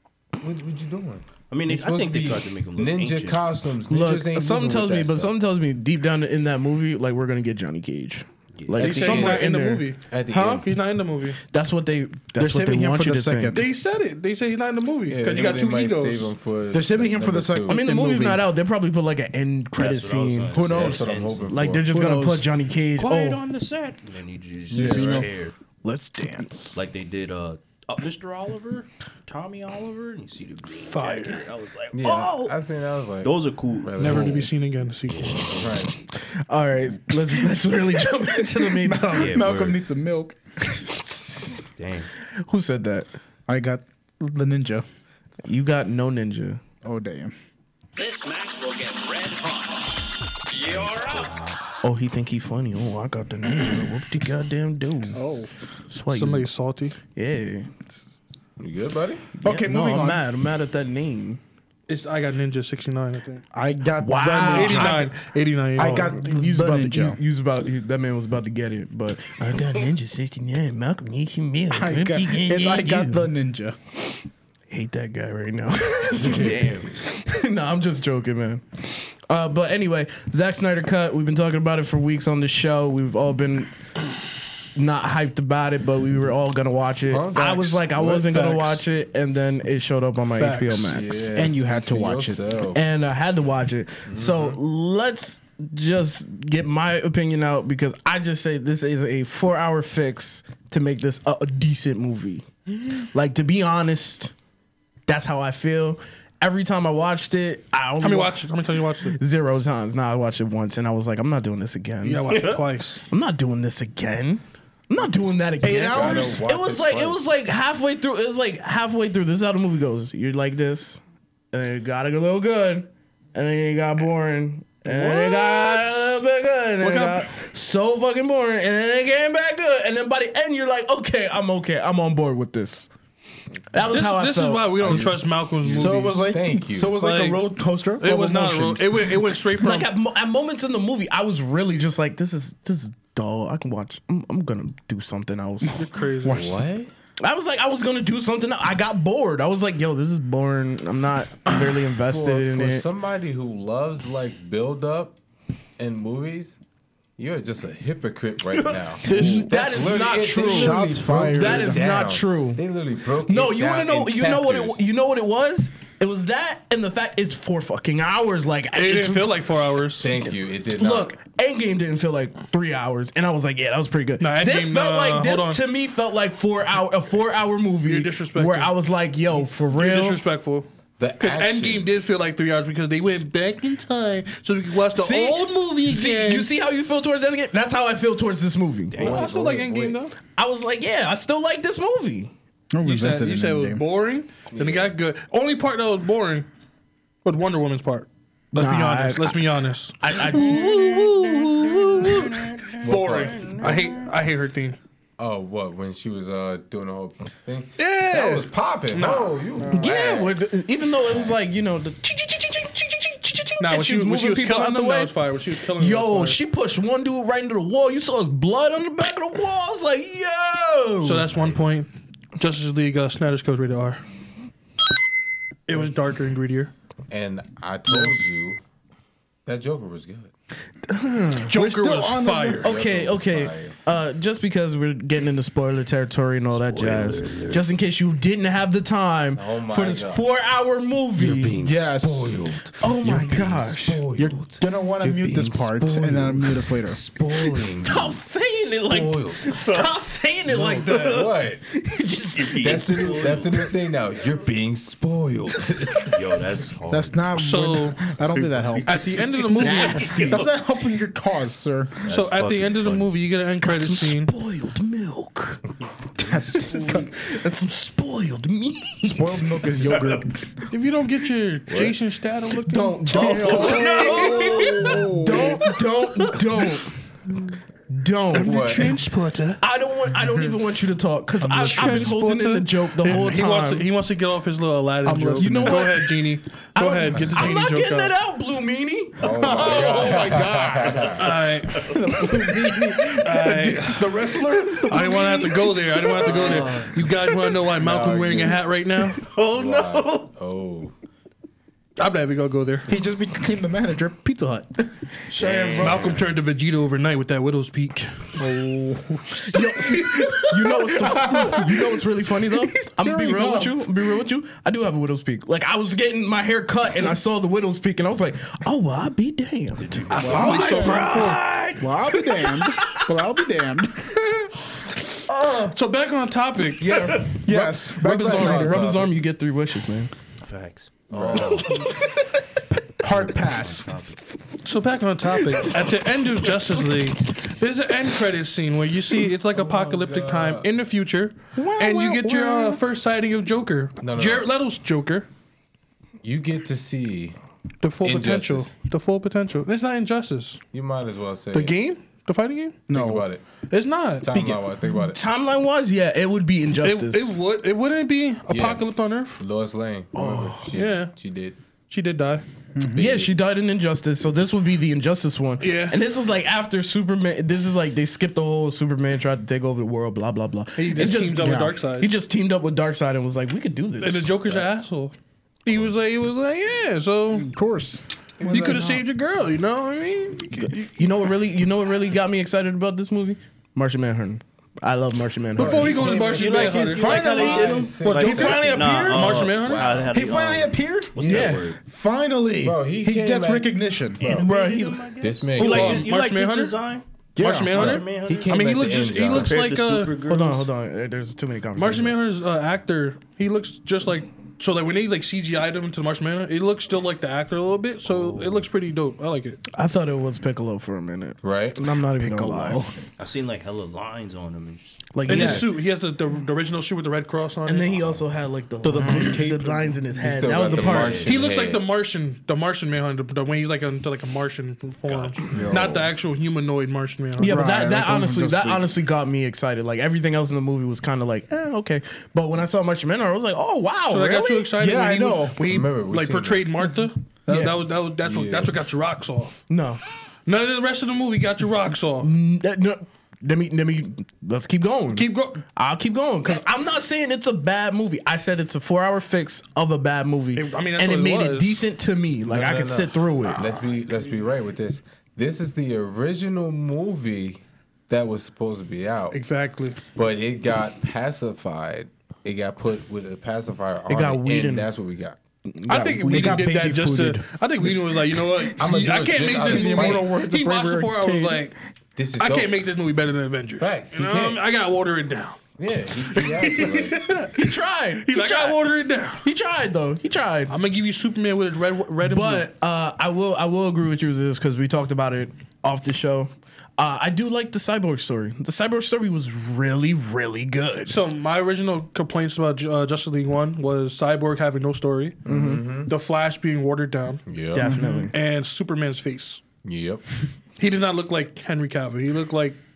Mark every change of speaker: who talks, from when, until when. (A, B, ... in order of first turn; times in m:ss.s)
0:00.4-0:05.3 A
0:01.5-0:03.4 B
0:03.9-0:10.7 C
0:08.6-0:08.8 B
0:08.8-0:09.5 A
0:08.8-0:10.0 D
0:10.1-0:10.7 A
0:10.6-0:11.4 D
0:11.5-0:13.6 C
0:12.4-0:13.7 E
0:13.5-0:16.3 D
0:15.1-0:17.8 A
0:16.7-0:18.5 E
0:17.7-0:20.6 C
0:19.8-0:21.6 B
0:20.5-0:21.1 E
0:20.5-0:21.9 A
0:21.5-0:23.4 C
0:21.9-0:22.5 E
0:23.0-0:25.5 B
0:24.7-0:25.3 A
0:24.7-0:25.3 E
0:25.8-0:26.8 E
0:26.7-0:32.6 B
0:30.8-0:31.4 D
0:31.9-0:34.5 A
0:33.2-0:34.5 B
0:34.0-0:35.4 D
0:35.1-0:35.9 B
0:35.6-0:35.9 A
0:36.5-0:39.4 C
0:38.2-0:40.4 E
0:39.1-0:39.8 B
0:40.7-0:41.6 C
0:41.8-0:42.1 B
0:42.4-0:43.1 C
0:43.5-0:44.8 E
0:45.4-0:46.6 C
0:46.8-0:47.3 E
0:48.0-0:50.0 F
0:50.5-0:51.3 F
0:50.6-0:51.6 B
0:51.8-0:55.2 C
0:55.1-0:55.5 E
0:55.9-0:56.5 C
0:56.1-0:57.0 D
0:57.1-0:57.7 C
0:58.6-0:59.2 A
0:59.4-1:01.4 C
0:59.4-1:00.2 E
1:01.9-1:03.4 D
1:03.5-1:05.1 E
1:04.0-1:05.1 C
1:04.5-1:06.2 D
1:05.8-1:07.2 E
1:05.8-1:13.3 C
1:11.7-1:13.8 E
1:14.7-1:23.7 C
1:16.2-1:16.6 A
1:16.2-1:16.9 B
1:24.8-1:31.3 C
1:27.1-1:27.8 A
1:27.4-1:28.8 D
1:30.3-1:30.8 D
1:30.8-1:32.8 A
1:31.4-1:32.4 E
1:32.7-1:42.5 C
1:34.1-1:34.6 A
1:43.0-1:44.3 C
1:45.1-1:48.4 C
1:48.0-1:49.2 D
1:49.2-1:52.5 C
1:52.0-1:53.0 D
1:52.3-1:52.6 B
1:53.1-2:01.0 C
1:55.6-1:56.4 E
1:55.8-1:57.2 A
2:01.5-2:12.9 C
2:04.8-2:06.2 D
2:06.8-2:07.3 D
2:13.7-2:15.1 C
2:13.8-2:16.4 D
2:14.8-2:17.0 A
2:15.7-2:19.2 E
2:17.0-2:17.4 D
2:18.0-2:19.9 D
2:19.6-2:25.9 C
2:25.8-2:26.5 D
2:26.2-2:26.7 E
2:26.3-2:26.9 A
2:27.2-2:32.9 C
2:31.8-2:35.2 A
2:35.8-2:36.6 A
2:37.2-2:44.9 A
2:39.0-2:42.6 C
2:39.1-2:39.4 D
2:39.1-2:39.4 E
2:40.3-2:41.8 E
2:43.3-2:49.4 C
2:48.7-2:50.1 D
2:50.0-2:51.1 A
2:50.7-3:00.2 C
2:54.2-2:55.6 D
2:57.8-2:58.7 D
2:59.7-3:00.7 D
3:01.0-3:01.9 A
3:01.2-3:06.5 D
3:05.0-3:09.0 C
3:08.9-3:09.3 B
3:09.0-3:10.0 A
3:09.0-3:10.2 D
3:10.3-3:12.3 C
3:12.7-3:13.9 E
3:12.8-3:16.5 D
3:14.5-3:15.0 A
3:17.2-3:21.1 D
3:18.6-3:19.4 C
3:20.0-3:22.5 C
3:22.0-3:24.8 D
3:22.7-3:24.0 B
3:22.8-3:23.6 A
3:25.2-3:30.4 A
3:27.8-3:29.9 D
3:29.7-3:35.2 C
3:30.9-3:31.4 A
3:33.6-3:36.4 D
3:35.8-3:41.3 C
3:41.0-3:44.0 D
3:45.7-3:46.7 D
3:47.1-3:48.6 A
3:49.5-3:50.3 A
3:50.9-3:51.5 C
3:51.5-3:52.7 D
3:51.5-3:52.7 E
3:52.6-3:53.8 A
3:52.6-4:01.6 C
3:56.5-3:57.8 B
3:59.3-4:00.3 A
4:01.2-4:09.5 A
4:01.6-4:02.4 E
4:02.8-4:04.0 C
4:04.2-4:07.0 E
4:07.6-4:13.2 C
4:10.5-4:11.6 A
4:12.4-4:13.7 B
4:12.6-4:16.2 A
4:16.0-4:17.3 B
4:16.9-4:22.0 E
4:17.3-4:18.0 D
4:18.3-4:19.6 B
4:18.8-4:20.4 D
4:19.6-4:20.4 C
4:20.2-4:20.4 B
4:22.1-4:23.2 B
4:22.1-4:24.3 D
4:23.6-4:25.6 C
4:26.2-4:27.2 E
4:26.5-4:29.6 C
4:29.0-4:30.5 E
4:30.7-4:34.9 D
4:32.6-4:36.9 C
4:33.1-4:35.7 E
4:33.6-4:34.9 B
4:37.9-4:38.7 C
4:38.3-4:39.6 D
4:38.4-4:39.0 A
4:39.6-4:43.9 C
4:41.4-4:48.2 D
4:41.5-4:42.1 E
4:45.0-4:46.1 E
4:45.4-4:49.2 C
4:49.2-4:51.5 A
4:49.2-4:56.4 E
4:51.2-4:51.9 D
4:52.2-4:52.5 C
4:53.2-4:54.2 D
4:54.9-4:59.3 D
4:56.2-4:57.1 B
4:57.8-4:58.6 A
4:59.2-5:00.3 B
4:59.5-5:00.9 A
5:02.0-5:02.9 D
5:02.9-5:04.9 E
5:05.3-5:06.3 B
5:05.4-5:06.0 C
5:05.7-5:08.4 D
5:08.4-5:13.9 E
5:09.5-5:23.1 C
5:19.8-5:21.0 B
5:20.1-5:24.5 E
5:20.2-5:21.4 D
5:25.3-5:25.8 C
5:25.7-5:27.3 D
5:26.8-5:30.1 C
5:27.2-5:28.9 E
5:27.5-5:29.2 A
5:30.4-5:31.9 B
5:31.1-5:31.8 A
5:33.0-5:34.0 E
5:33.0-5:34.2 B
5:34.6-5:45.3 D
5:35.5-5:35.8 C
5:39.5-5:40.7 A
5:41.6-5:42.8 C
5:44.0-5:44.5 A
5:46.2-5:47.4 A
5:47.8-5:50.6 D
5:48.0-5:48.7 A
5:50.7-5:51.8 A
5:51.5-5:52.8 D
5:52.9-5:53.3 E
5:52.9-5:53.4 A
5:53.7-5:54.3 D
5:54.2-5:55.2 A
5:55.1-5:57.4 C
5:56.8-5:59.4 D
5:58.5-6:01.6 A
6:00.2-6:00.7 C
6:00.8-6:01.1 D
6:01.9-6:02.4 D
6:02.8-6:03.0 E
6:02.9-6:03.3 A
6:03.0-6:14.8 C
6:05.6-6:06.0 D
6:10.8-6:12.1 D
6:11.0-6:11.8 E
6:14.0-6:15.1 D
6:15.6-6:17.5 D
6:17.3-6:18.8 E
6:18.4-6:18.8 A
6:18.5-6:20.8 D
6:20.6-6:27.5 C
6:25.6-6:30.0 D
6:25.6-6:30.3 A
6:26.7-6:34.4 E
6:26.9-6:31.8 B
6:31.2-6:31.6 A
6:31.2-6:31.6 C
6:32.6-6:34.5 A
6:34.2-6:37.0 B
6:34.3-6:35.1 C
6:35.2-6:36.1 A
6:35.6-6:36.8 D
6:37.4-6:37.9 E
6:37.4-6:40.2 D
6:37.7-6:40.7 B
6:37.7-6:39.6 A
6:40.3-6:42.2 C
6:41.8-6:49.6 D
6:48.0-6:48.7 B
6:49.8-6:52.8 C
6:51.4-6:51.8 A
6:52.2-6:53.0 E
6:53.2-6:55.6 B
6:55.1-6:55.7 C
6:55.3-6:58.2 D
6:57.7-7:01.2 C
6:58.8-7:00.1 E
7:00.2-7:01.9 A
7:00.7-7:01.4 B
7:01.2-7:07.7 D
7:05.1-7:05.5 B
7:05.5-7:06.1 A
7:05.6-7:05.9 E
7:07.4-7:08.9 E
7:07.4-7:14.7 C
7:14.1-7:19.6 D
7:14.8-7:15.6 E
7:15.6-7:16.8 A
7:17.5-7:17.8 C
7:18.2-7:18.8 A
7:19.7-7:20.0 C
7:20.5-7:22.3 D
7:22.2-7:33.7 C
7:25.1-7:25.6 D
7:30.6-7:31.8 D
7:32.5-7:39.4 A
7:39.3-7:40.0 D
7:40.2-7:45.4 A
7:44.1-7:44.9 C
7:45.7-7:46.7 C
7:45.9-7:51.7 D
7:46.3-7:48.7 E
7:48.8-7:50.3 A
7:49.4-7:51.7 E
7:52.2-7:52.8 A
7:52.4-7:55.6 D
7:53.8-7:54.6 A
7:55.8-7:57.3 A
7:56.3-7:59.5 D
7:57.6-8:00.8 C
8:00.7-8:02.7 D
8:02.2-8:11.2 C
8:11.1-8:15.4 D
8:15.5-8:16.1 A
8:15.5-8:15.8 C
8:16.1-8:17.4 D
8:17.5-8:17.9 A
8:17.7-8:18.4 C
8:17.9-8:18.2 E
8:18.0-8:19.6 D
8:19.8-8:20.2 A
8:20.8-8:22.8 D